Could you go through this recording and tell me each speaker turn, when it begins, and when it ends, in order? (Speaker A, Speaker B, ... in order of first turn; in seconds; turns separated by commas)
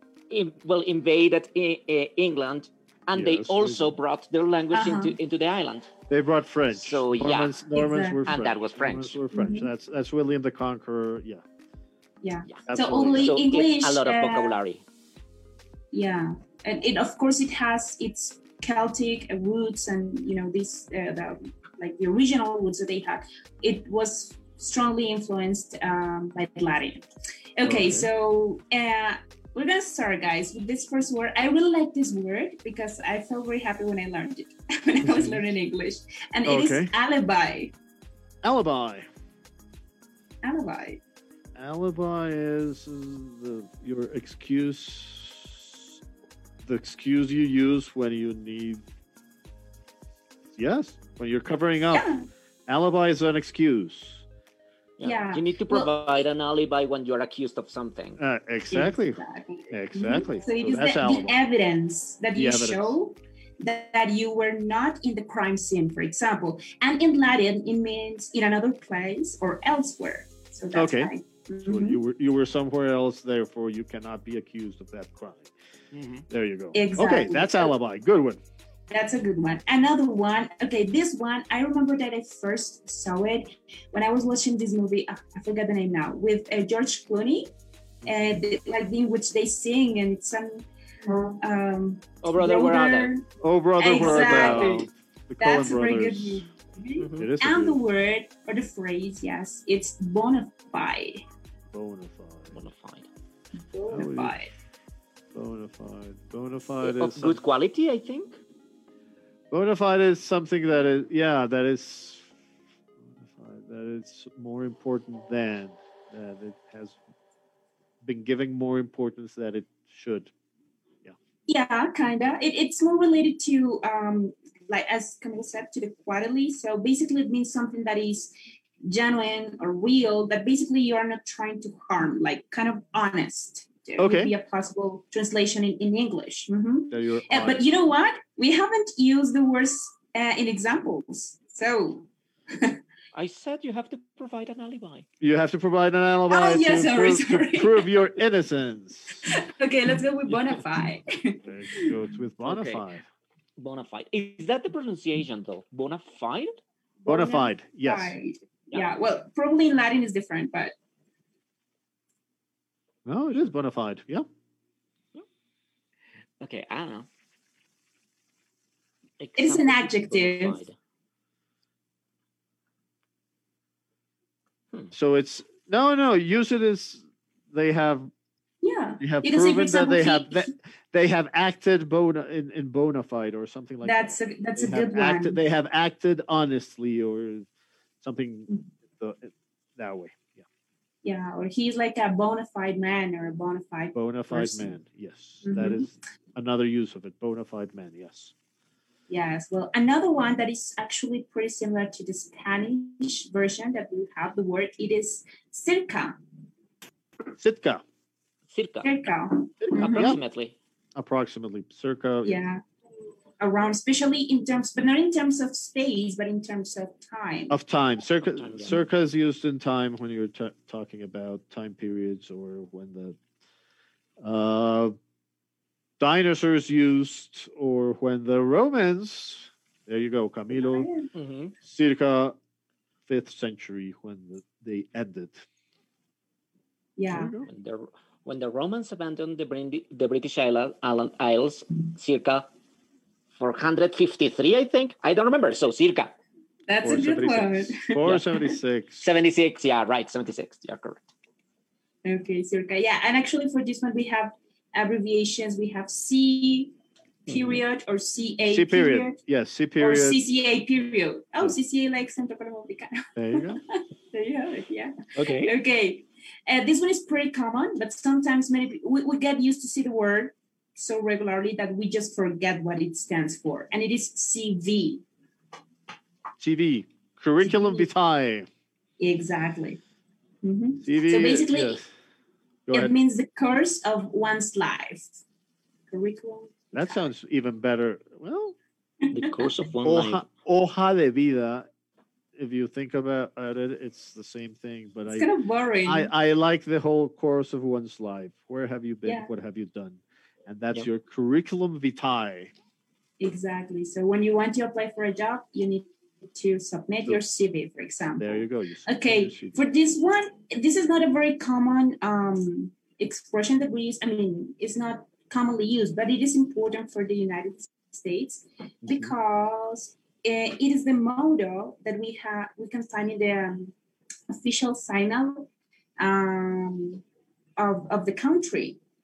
Speaker A: 0.3-5.9, Speaker B: 3.1-4.0, Speaker C: 4.7-5.2, Speaker B: 6.1-11.4, Speaker A: 6.8-7.6, Speaker C: 7.7-8.2, Speaker A: 8.2-9.2, Speaker C: 9.3-9.7, Speaker C: 12.2-14.6, Speaker A: 12.5-14.8, Speaker B: 12.7-13.3, Speaker C: 15.9-37.7, Speaker B: 27.6-28.1, Speaker B: 35.0-35.4, Speaker B: 36.5-36.9, Speaker B: 38.4-39.0, Speaker C: 40.4-41.0, Speaker B: 41.5-45.8, Speaker B: 46.6-48.8, Speaker B: 50.6-52.1, Speaker C: 51.9-52.3, Speaker B: 52.7-54.2, Speaker A: 55.0-58.2, Speaker C: 55.0-55.9, Speaker B: 58.2-61.4, Speaker C: 58.7-72.0, Speaker B: 62.3-63.0, Speaker B: 70.7-71.1, Speaker B: 71.7-75.5, Speaker A: 75.9-76.2, Speaker B: 76.3-78.4, Speaker C: 76.7-77.7, Speaker C: 78.9-87.5, Speaker B: 88.0-88.4, Speaker C: 88.0-93.2, Speaker A: 92.2-93.1, Speaker B: 93.4-96.5, Speaker C: 93.8-101.2, Speaker A: 93.9-94.8, Speaker A: 97.0-97.3, Speaker B: 97.2-97.8, Speaker B: 101.7-102.6, Speaker A: 102.5-103.1, Speaker C: 103.6-104.5, Speaker B: 103.9-104.5, Speaker B: 105.3-107.4, Speaker A: 106.8-108.4, Speaker B: 109.5-112.3, Speaker B: 113.1-117.0, Speaker B: 118.0-120.3, Speaker C: 121.5-128.3, Speaker C: 128.9-142.8, Speaker B: 134.0-134.3, Speaker B: 136.9-137.7, Speaker A: 143.1-145.1, Speaker B: 145.2-149.3, Speaker C: 146.3-148.1, Speaker C: 149.2-151.9, Speaker B: 151.4-153.1, Speaker A: 152.4-152.9, Speaker A: 153.6-156.5, Speaker C: 157.0-160.7, Speaker B: 157.1-158.2, Speaker B: 163.1-164.2, Speaker A: 166.4-167.1, Speaker A: 169.2-170.8, Speaker C: 169.4-170.6, Speaker B: 174.9-178.1, Speaker C: 178.6-180.5, Speaker B: 179.0-187.5, Speaker C: 183.8-185.4, Speaker B: 188.0-190.4, Speaker C: 191.0-194.7, Speaker B: 193.9-198.3, Speaker C: 195.4-195.9, Speaker C: 199.1-206.2, Speaker B: 207.4-207.8, Speaker A: 208.5-208.9, Speaker C: 208.8-210.2, Speaker B: 209.6-210.2, Speaker A: 209.7-210.6, Speaker B: 210.9-212.4, Speaker C: 212.2-212.6, Speaker C: 213.4-217.6, Speaker B: 217.5-223.2, Speaker A: 218.2-218.9, Speaker B: 224.2-224.9, Speaker B: 226.0-230.9, Speaker C: 230.5-231.1, Speaker A: 231.1-231.5, Speaker B: 231.6-232.3, Speaker B: 233.1-235.4, Speaker C: 237.0-237.3, Speaker B: 237.1-237.5, Speaker A: 237.4-242.5, Speaker A: 243.3-246.1, Speaker C: 246.7-248.0, Speaker B: 246.8-249.0, Speaker A: 249.0-251.0, Speaker C: 252.0-256.7, Speaker A: 257.3-257.6, Speaker C: 257.3-259.2, Speaker B: 258.5-260.2, Speaker C: 259.8-275.0, Speaker B: 263.1-263.6, Speaker A: 265.1-265.5, Speaker B: 276.4-278.5, Speaker C: 277.4-277.9, Speaker C: 279.0-279.8, Speaker C: 280.4-281.8, Speaker B: 280.8-281.9, Speaker B: 282.7-282.9, Speaker C: 282.7-285.2, Speaker C: 285.9-287.1, Speaker B: 286.7-288.6, Speaker C: 289.1-289.5, Speaker A: 289.1-290.2, Speaker B: 289.8-291.7, Speaker B: 292.4-295.3, Speaker C: 295.1-296.1, Speaker B: 295.8-302.5, Speaker C: 299.0-299.3, Speaker C: 303.2-323.7, Speaker B: 308.2-309.6, Speaker B: 318.8-319.1, Speaker C: 324.3-327.0, Speaker C: 327.6-328.8